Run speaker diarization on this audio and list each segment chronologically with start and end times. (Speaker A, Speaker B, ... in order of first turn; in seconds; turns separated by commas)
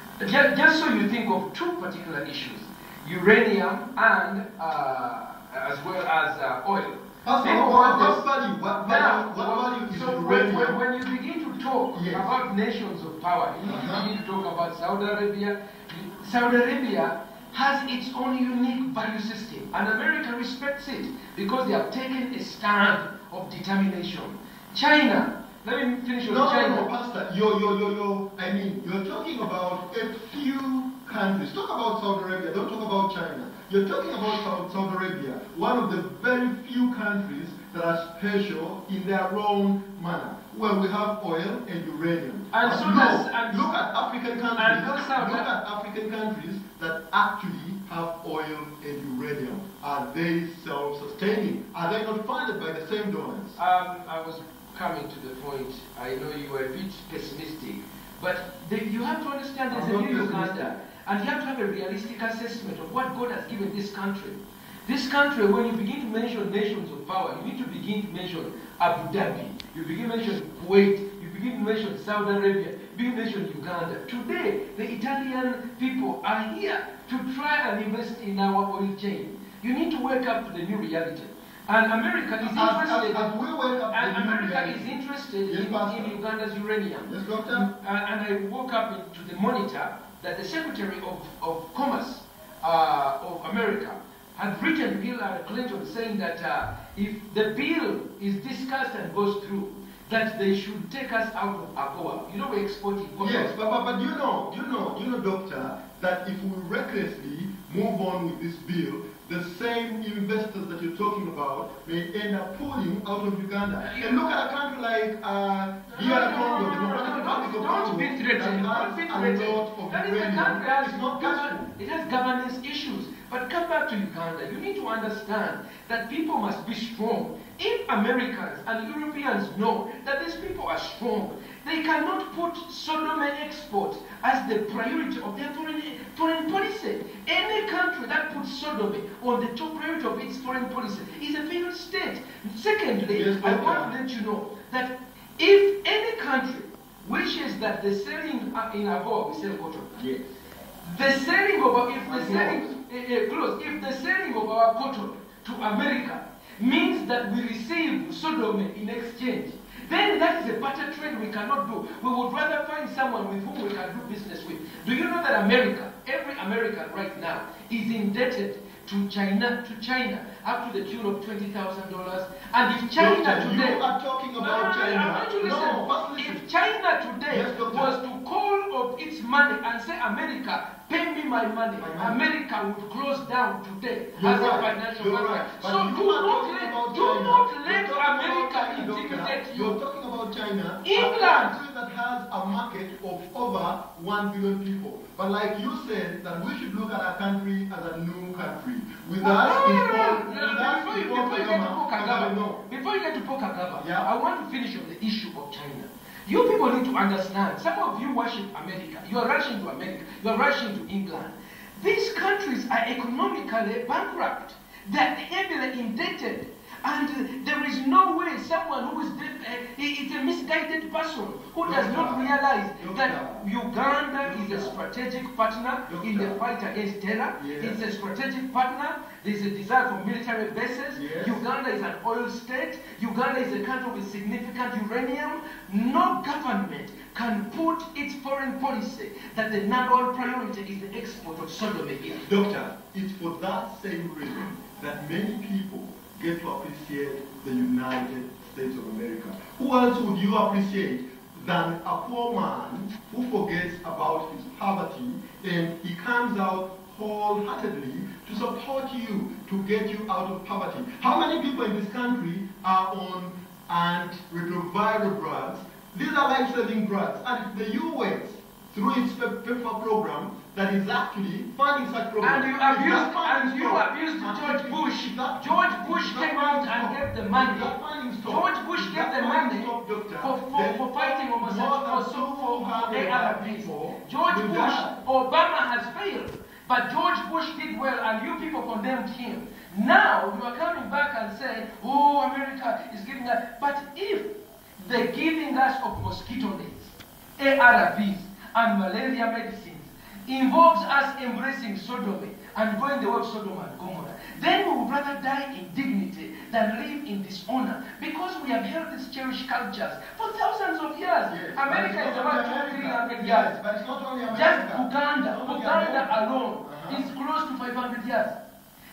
Speaker A: 0.2-8.2, Speaker B: 7.2-10.8, Speaker A: 8.8-26.9, Speaker B: 11.9-12.3, Speaker B: 13.6-14.1, Speaker B: 26.2-53.6, Speaker A: 42.5-43.7, Speaker A: 44.5-45.5, Speaker A: 53.6-83.3, Speaker B: 59.7-60.7, Speaker B: 82.4-86.2, Speaker A: 83.9-103.5, Speaker B: 87.0-87.7, Speaker B: 103.2-121.7, Speaker A: 113.8-114.2, Speaker A: 115.9-150.0, Speaker B: 143.1-143.9, Speaker B: 150.0-150.2, Speaker A: 150.8-173.8, Speaker B: 152.0-152.8, Speaker B: 172.9-176.4, Speaker A: 174.4-189.8, Speaker B: 177.3-177.9, Speaker B: 181.8-182.2, Speaker B: 184.1-202.6, Speaker A: 190.8-191.6, Speaker A: 199.2-242.2, Speaker B: 203.8-204.1, Speaker B: 221.6-222.2, Speaker B: 222.8-223.4, Speaker B: 224.2-224.8, Speaker B: 225.9-226.4, Speaker B: 227.4-227.8, Speaker B: 230.9-231.4, Speaker B: 242.2-285.0, Speaker A: 272.2-313.6, Speaker B: 311.3-317.1, Speaker A: 314.3-318.4